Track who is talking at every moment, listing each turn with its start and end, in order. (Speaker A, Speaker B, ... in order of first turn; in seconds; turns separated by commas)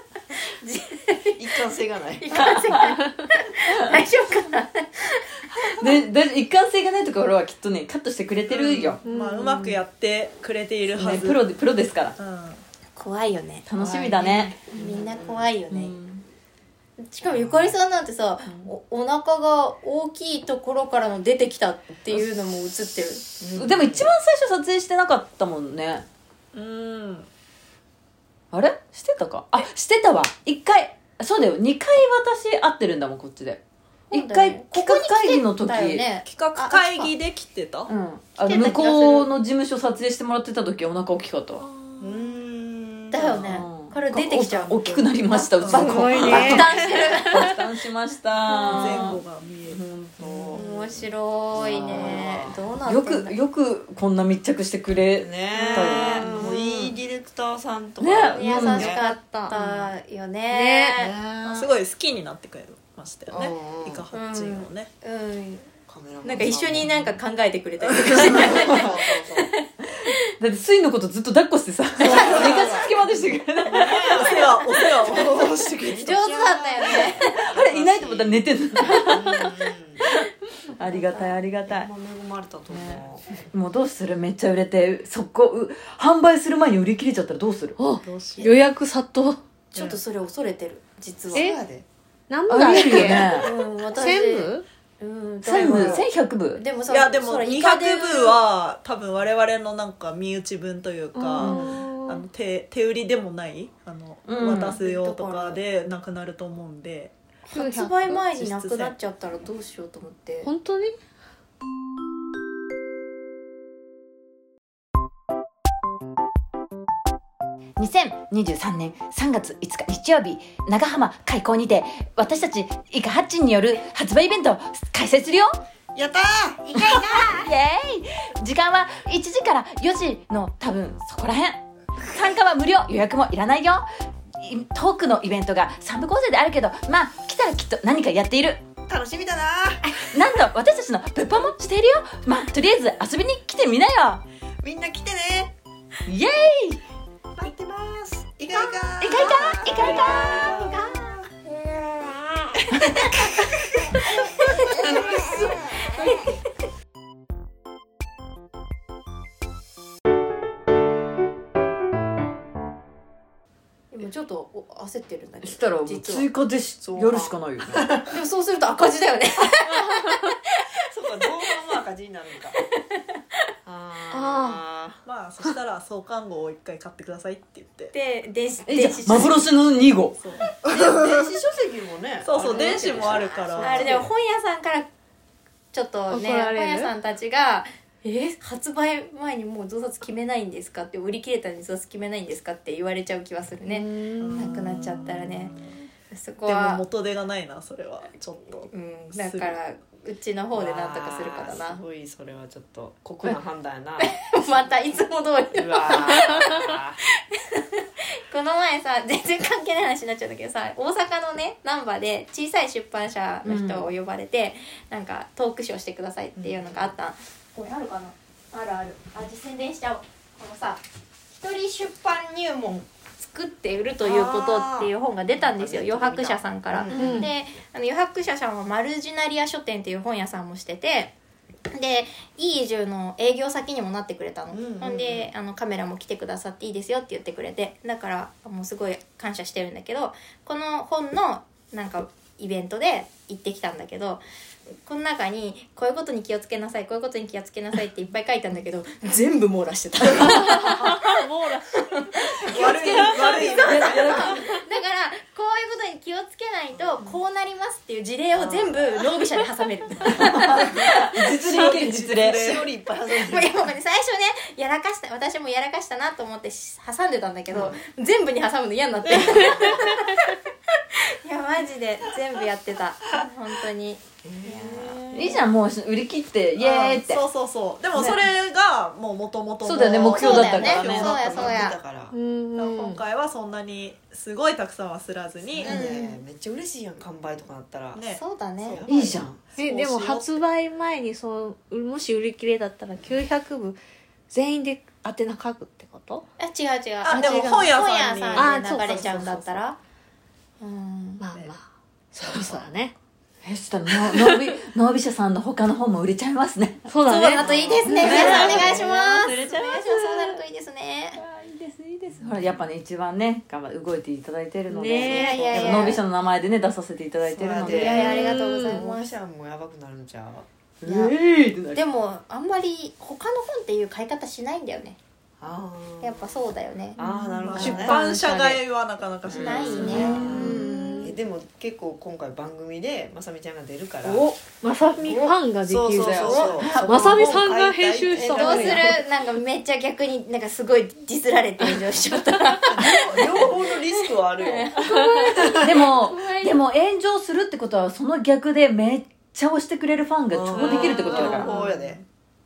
Speaker A: 0.3-1.5, Speaker B: 1.4-2.5, Speaker A: 2.2-5.9, Speaker C: 2.3-3.0, Speaker C: 5.8-9.0, Speaker D: 8.5-11.4, Speaker E: 9.1-9.8, Speaker C: 10.9-12.2, Speaker D: 12.2-12.6, Speaker A: 13.0-16.0, Speaker C: 13.7-14.6, Speaker B: 14.7-15.5, Speaker C: 15.7-16.2, Speaker A: 17.0-23.2, Speaker B: 17.3-17.8, Speaker B: 23.4-24.1, Speaker C: 23.6-26.1, Speaker D: 26.5-27.3, Speaker C: 28.5-36.1, Speaker A: 34.1-37.1, Speaker D: 36.3-37.9, Speaker C: 37.9-41.6, Speaker A: 38.4-39.3, Speaker D: 41.6-43.5, Speaker B: 42.0-43.0, Speaker A: 43.1-47.5, Speaker C: 43.4-50.6, Speaker D: 45.6-46.0, Speaker E: 45.7-47.3, Speaker A: 48.5-49.1, Speaker D: 48.7-49.8, Speaker B: 50.2-52.6, Speaker A: 50.5-53.4, Speaker C: 51.5-52.2, Speaker C: 52.9-56.3, Speaker B: 55.2-59.0, Speaker A: 55.5-56.6, Speaker E: 56.1-56.6, Speaker C: 58.0-59.0, Speaker A: 58.4-61.1, Speaker E: 58.8-59.5, Speaker E: 60.5-61.0, Speaker B: 61.0-61.7, Speaker D: 61.4-64.9, Speaker B: 63.3-64.0, Speaker A: 64.1-65.7, Speaker B: 65.9-67.1, Speaker A: 66.2-69.7, Speaker D: 67.8-68.5, Speaker B: 67.9-69.5, Speaker C: 70.4-74.8, Speaker B: 72.0-72.9, Speaker D: 72.1-72.6, Speaker A: 72.1-72.8, Speaker B: 73.7-80.0, Speaker D: 73.9-76.1, Speaker A: 75.9-77.2, Speaker C: 77.2-79.5, Speaker C: 80.8-81.9, Speaker A: 80.8-81.4, Speaker B: 81.7-83.2, Speaker C: 82.7-87.8, Speaker E: 87.8-89.4, Speaker D: 88.1-88.5, Speaker A: 89.7-91.5, Speaker D: 89.8-90.0, Speaker B: 91.3-91.9, Speaker E: 91.3-91.6, Speaker E: 92.3-94.7, Speaker C: 92.5-93.5, Speaker A: 92.8-98.4, Speaker C: 95.4-96.6, Speaker B: 95.6-96.0, Speaker D: 96.9-107.1, Speaker E: 101.2-102.2, Speaker A: 101.4-101.7, Speaker C: 104.3-104.8, Speaker A: 104.5-105.6, Speaker A: 107.5-110.5, Speaker E: 107.5-108.0, Speaker D: 108.0-108.9, Speaker E: 110.4-111.0, Speaker C: 117.8-125.6, Speaker B: 126.0-127.4, Speaker A: 126.7-127.5, Speaker C: 126.8-138.6, Speaker B: 138.9-140.0, Speaker C: 140.1-144.2, Speaker B: 144.6-145.5, Speaker C: 146.1-146.8, Speaker B: 147.4-151.1, Speaker A: 148.5-151.2, Speaker C: 149.0-150.6, Speaker B: 152.7-153.2, Speaker A: 152.8-153.4, Speaker A: 154.1-156.3, Speaker B: 154.4-156.0, Speaker A: 163.9-166.3, Speaker C: 165.4-167.9, Speaker B: 166.8-168.1, Speaker A: 168.1-170.7, Speaker B: 170.9-172.6, Speaker B: 173.7-175.0, Speaker E: 174.1-174.6, Speaker D: 175.1-177.9, Speaker A: 177.9-179.5, Speaker C: 178.7-180.2, Speaker D: 180.2-181.3, Speaker B: 180.6-184.1, Speaker D: 182.2-184.0, Speaker A: 182.5-184.9, Speaker A: 185.7-187.7, Speaker E: 186.1-186.9, Speaker E: 188.1-188.3, Speaker A: 188.3-193.9, Speaker E: 193.7-194.5, Speaker D: 194.2-195.7, Speaker A: 194.4-195.6, Speaker A: 196.1-196.8, Speaker D: 196.4-199.6, Speaker A: 198.7-201.8, Speaker B: 200.5-204.3, Speaker A: 204.0-231.1, Speaker B: 205.5-207.0, Speaker C: 213.4-213.9, Speaker B: 216.4-216.9, Speaker B: 224.0-227.3, Speaker E: 226.9-227.3, Speaker A: 231.7-244.2, Speaker B: 234.5-235.3, Speaker A: 244.8-260.9, Speaker E: 250.2-251.6, Speaker D: 252.4-254.3, Speaker B: 252.5-254.2, Speaker C: 253.5-254.4, Speaker B: 256.7-257.1, Speaker B: 258.3-259.2, Speaker D: 260.0-260.9, Speaker C: 260.1-262.4, Speaker D: 261.4-262.7, Speaker B: 261.6-263.7, Speaker A: 263.1-270.4, Speaker B: 267.5-267.8, Speaker B: 269.1-269.8, Speaker A: 270.9-275.5, Speaker B: 274.2-275.0, Speaker C: 275.1-277.2, Speaker D: 276.6-281.7, Speaker C: 277.9-278.2, Speaker C: 279.6-281.1, Speaker A: 279.8-281.8, Speaker B: 280.6-282.1, Speaker E: 282.1-283.0, Speaker D: 282.6-285.8, Speaker B: 285.5-288.1, Speaker A: 285.6-286.2, Speaker D: 287.9-288.2, Speaker A: 288.1-288.8, Speaker B: 288.6-289.4, Speaker C: 288.9-289.4, Speaker D: 289.6-290.4, Speaker E: 289.6-293.8, Speaker E: 294.3-296.3, Speaker A: 296.4-299.8, Speaker D: 297.0-298.7, Speaker E: 297.1-297.7, Speaker E: 298.3-299.6, Speaker A: 300.6-301.2, Speaker E: 301.2-302.9, Speaker C: 303.4-306.9, Speaker E: 304.0-304.5, Speaker E: 306.9-307.5, Speaker A: 307.1-311.2, Speaker B: 307.3-308.9, Speaker C: 307.8-310.4, Speaker D: 308.1-308.7, Speaker C: 311.2-318.2, Speaker B: 312.1-312.6, Speaker E: 314.7-315.6, Speaker B: 315.0-316.0, Speaker A: 315.0-316.0, Speaker B: 317.2-320.5, Speaker A: 317.6-319.1, Speaker E: 318.0-318.8, Speaker C: 320.8-321.8, Speaker A: 320.9-321.1, Speaker A: 321.7-325.0, Speaker B: 325.4-326.4, Speaker A: 326.0-327.0, Speaker B: 327.0-328.0, Speaker E: 327.5-328.6, Speaker D: 327.5-330.2, Speaker B: 329.3-334.3, Speaker A: 329.3-330.4, Speaker C: 329.8-330.7, Speaker E: 329.9-331.2, Speaker C: 334.0-334.4, Speaker E: 334.4-339.1, Speaker B: 335.6-339.0, Speaker C: 336.0-337.4, Speaker A: 336.2-336.8, Speaker A: 338.1-346.6, Speaker D: 342.7-343.5, Speaker B: 342.7-344.8, Speaker E: 344.9-345.3, Speaker B: 345.4-345.8, Speaker C: 345.6-351.5, Speaker B: 350.3-352.0, Speaker A: 350.6-351.6, Speaker D: 350.7-352.1